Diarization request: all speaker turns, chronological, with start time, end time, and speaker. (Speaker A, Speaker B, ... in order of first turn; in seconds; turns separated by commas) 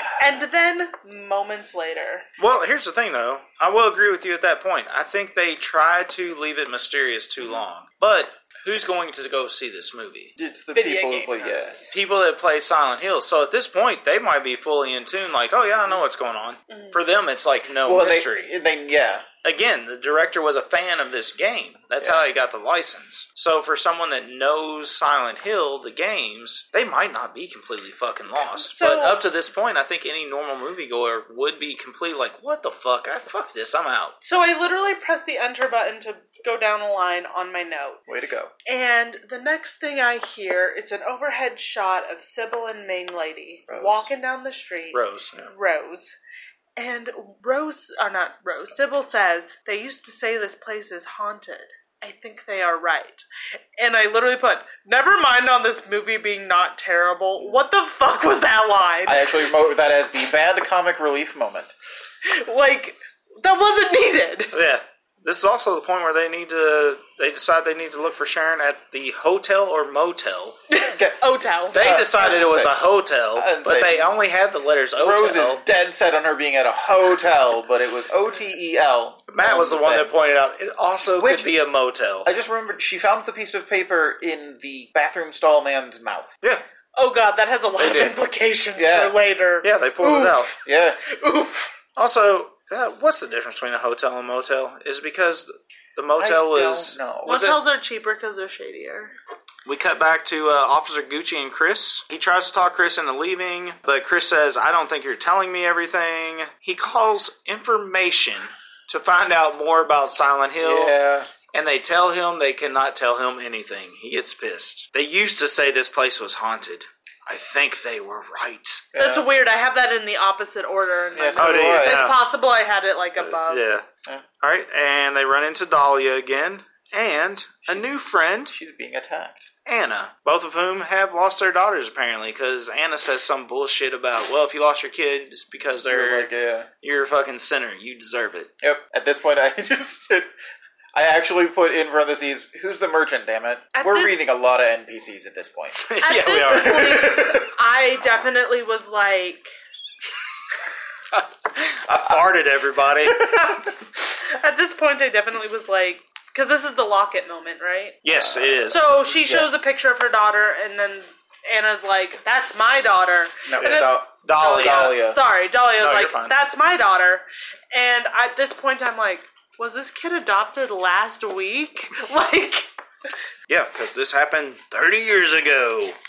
Speaker A: 0.2-2.3, Speaker B: 2.4-10.3, Speaker C: 10.4-11.9, Speaker A: 10.7-11.7, Speaker B: 11.9-18.5, Speaker C: 17.8-19.3, Speaker B: 19.4-34.2, Speaker A: 28.4-29.2, Speaker A: 34.2-38.0, Speaker C: 38.1-38.5, Speaker A: 38.7-46.1, Speaker C: 43.7-44.1, Speaker B: 44.9-45.5, Speaker A: 46.8-53.3, Speaker A: 53.8-59.4, Speaker C: 59.1-61.7, Speaker A: 62.2-64.5, Speaker B: 64.5-70.6, Speaker A: 70.7-71.9, Speaker C: 70.9-72.8, Speaker B: 71.7-75.6, Speaker C: 73.3-74.2, Speaker C: 75.0-80.1, Speaker B: 79.3-82.3, Speaker C: 81.1-81.5, Speaker C: 82.2-86.3, Speaker A: 87.0-91.7, Speaker B: 87.8-88.2, Speaker C: 88.8-89.2, Speaker B: 89.6-90.5, Speaker C: 90.6-91.0, Speaker B: 92.0-97.6, Speaker C: 96.2-97.4, Speaker A: 97.3-99.1, Speaker B: 99.7-111.0, Speaker C: 110.6-111.3, Speaker B: 111.5-118.9, Speaker C: 118.9-119.3, Speaker A: 119.0-123.6, Speaker C: 121.2-122.1, Speaker B: 121.4-122.2, Speaker B: 123.2-123.9, Speaker B: 124.4-128.6, Speaker C: 128.5-129.5, Speaker B: 129.7-136.3, Speaker C: 135.9-136.7, Speaker B: 136.8-138.5, Speaker C: 138.6-140.3, Speaker C: 140.9-145.9, Speaker A: 143.7-144.2, Speaker B: 145.8-147.2, Speaker A: 146.0-149.5, Speaker C: 146.6-147.5, Speaker B: 151.1-153.5, Speaker A: 154.0-158.0, Speaker B: 158.0-158.9, Speaker C: 158.1-159.5, Speaker A: 158.6-172.7, Speaker C: 163.5-165.2, Speaker B: 163.6-165.1, Speaker B: 165.8-166.4, Speaker B: 173.5-176.0